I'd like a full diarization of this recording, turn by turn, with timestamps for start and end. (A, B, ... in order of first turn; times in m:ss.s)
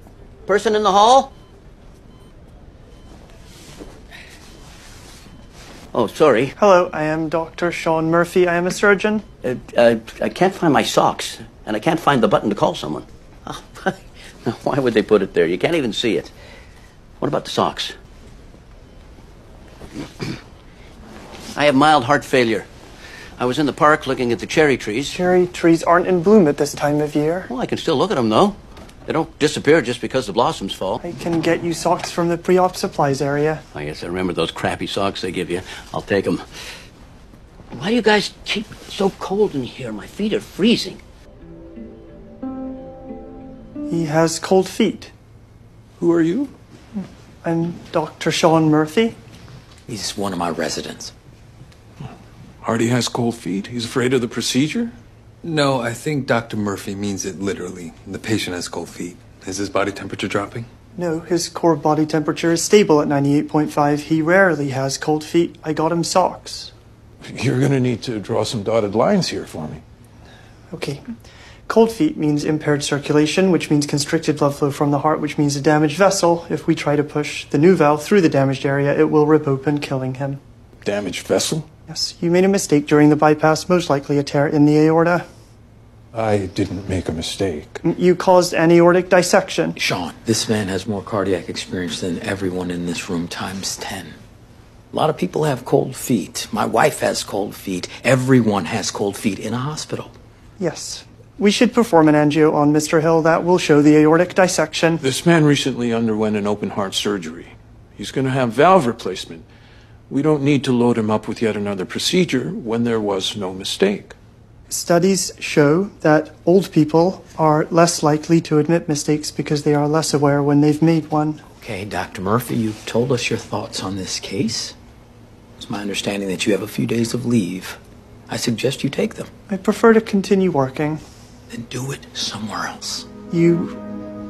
0:00.5-0:01.3 A
0:05.9-0:06.5 A
0:06.6-0:09.2 B
0:09.4-0:16.3 A
0:17.2-0:17.9 A
0:21.5-0:22.7 A
0:23.4-0:25.2 A
0:25.1-0:27.5 B
0:27.5-0:31.0 A
0:31.0-0:33.6 B
0:33.7-0:36.4 A
0:37.7-0:41.0 A
0:43.9-0:45.1 B
0:46.0-0:46.5 C
0:47.4-0:49.2 B
0:49.9-0:51.1 D
0:52.6-0:54.9 C
0:55.4-1:00.7 E
1:01.0-1:06.7 B
1:07.3-1:09.8 C
1:10.7-1:11.0 B
1:11.7-1:20.4 B
1:20.8-1:21.7 C
1:21.9-1:25.2 B
1:26.1-1:27.8 C
1:27.8-1:29.8 B
1:29.8-1:34.2 D
1:34.9-1:40.1 D
1:40.6-1:45.0 B
1:45.0-1:49.4 C
1:50.1-1:54.1 C
1:54.7-2:01.4 B
2:01.5-2:04.8 D
2:05.6-2:09.3 D
2:09.5-2:11.0 B
2:11.5-2:13.1 D
2:13.3-2:13.8 B